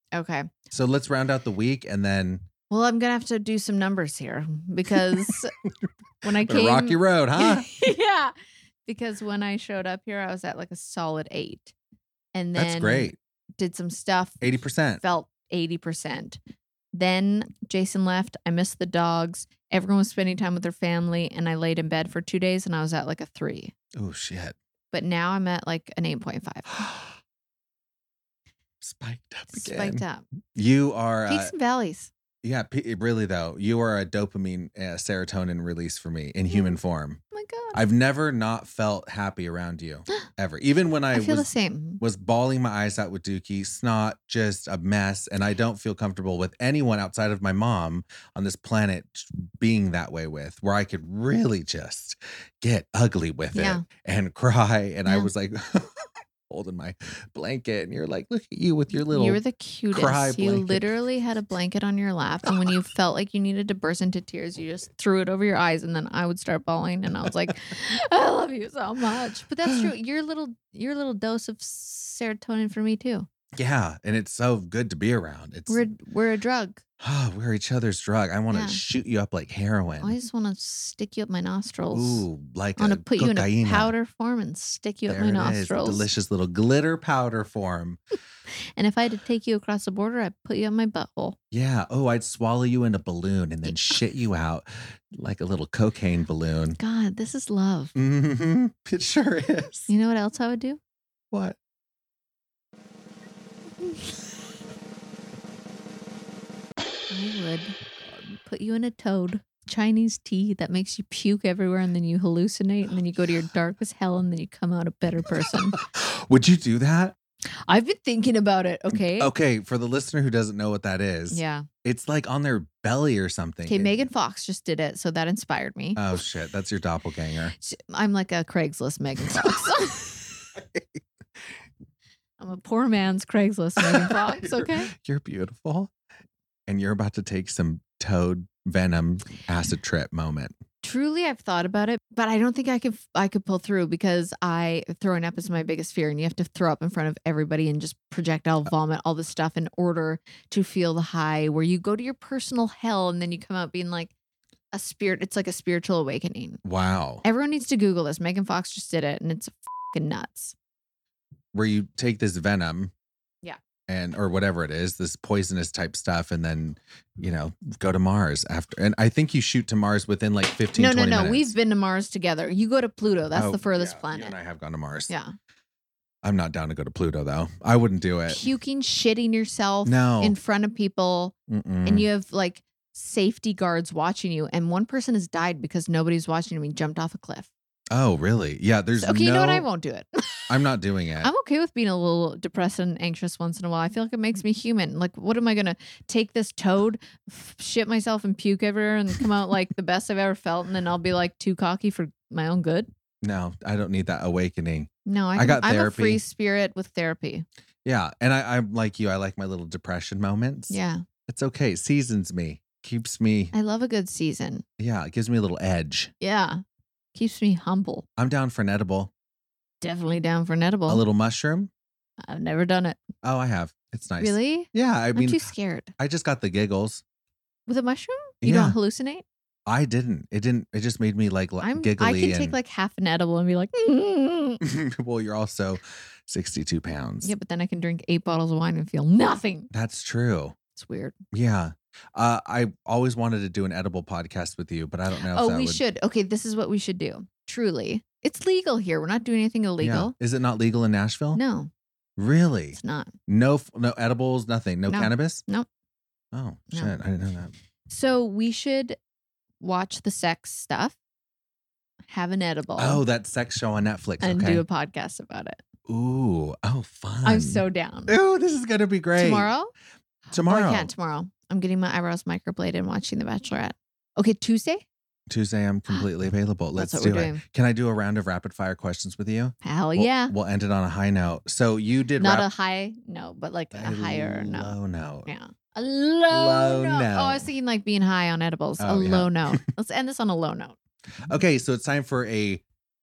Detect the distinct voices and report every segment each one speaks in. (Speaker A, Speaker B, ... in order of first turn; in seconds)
Speaker A: 0.1-0.5, 2.7-5.5, 6.2-8.3, 8.8-11.7, 12.3-16.4, 16.9-23.7, 24.9-26.7, 29.5-30.2, 31.3-32.1, 36.5-36.8, 37.3-37.8, 41.1-42.0, 53.5-53.8, 59.1-73.3, 75.7-76.8, 78.5-78.8, 80.0-82.2, 82.8-86.0, 88.8-91.4, 96.8-97.9, 99.9-100.8, 107.1-115.8, 117.6-119.3, 121.3-121.7, 123.7-126.0, 127.6-130.2, 132.4-134.9, 140.8-154.1, 154.7-156.6, 157.2-160.5, 170.7-174.3, 175.1-175.3, 178.3-181.3, 181.8-187.5, 189.0-190.3, 191.2-202.9, 205.1-207.4, 210.7-211.0, 213.5-214.6, 216.2-216.6, 217.1-218.0, 219.8-221.0, 222.2-223.0, 224.2-225.9, 227.7-229.2, 231.6-234.6, 237.2-239.7, 240.7-241.2, 245.3-250.1, 251.3-251.7, 252.7-253.1, 254.9-255.7, 257.9-259.0, 259.6-260.9, 262.1-263.0, 264.2-265.6, 267.2-268.1, 269.1-269.7, 270.4-274.8, 276.7-277.4, 279.6-280.3, 282.2-284.7, 285.2-290.7
Speaker B: 0.7-2.5, 6.4-7.7, 12.5-13.2, 14.4-15.0, 23.9-24.6, 26.7-27.2, 28.8-30.0, 30.5-31.5, 32.4-37.2, 37.7-41.5, 42.0-55.9, 56.5-59.4, 59.9-60.9, 67.2-67.5, 73.5-75.8, 77.0-80.2, 81.9-83.9, 85.1-88.0, 91.5-96.8, 97.9-99.9, 101.3-101.6, 115.4-117.1, 118.9-124.0, 126.0-127.5, 129.3-129.7, 130.6-131.0, 133.8-135.9, 136.7-140.6, 156.6-157.2, 161.5-162.9, 163.9-171.5, 173.3-175.1, 176.2-178.4, 179.8-180.3, 181.5-182.1, 187.9-189.7, 190.5-191.3, 203.2-206.2, 207.8-213.5, 214.8-216.1, 218.2-219.1, 220.9-221.7, 223.2-227.0, 228.4-228.8, 229.7-232.6, 234.6-237.3, 239.7-240.6, 241.3-245.8, 249.8-251.4, 252.2-255.4, 256.3-257.5, 262.8-264.6, 265.9-269.5, 270.3-270.9, 275.3-282.5, 283.7-285.3, 286.3-287.5, 288.8-289.6, 291.3-292.6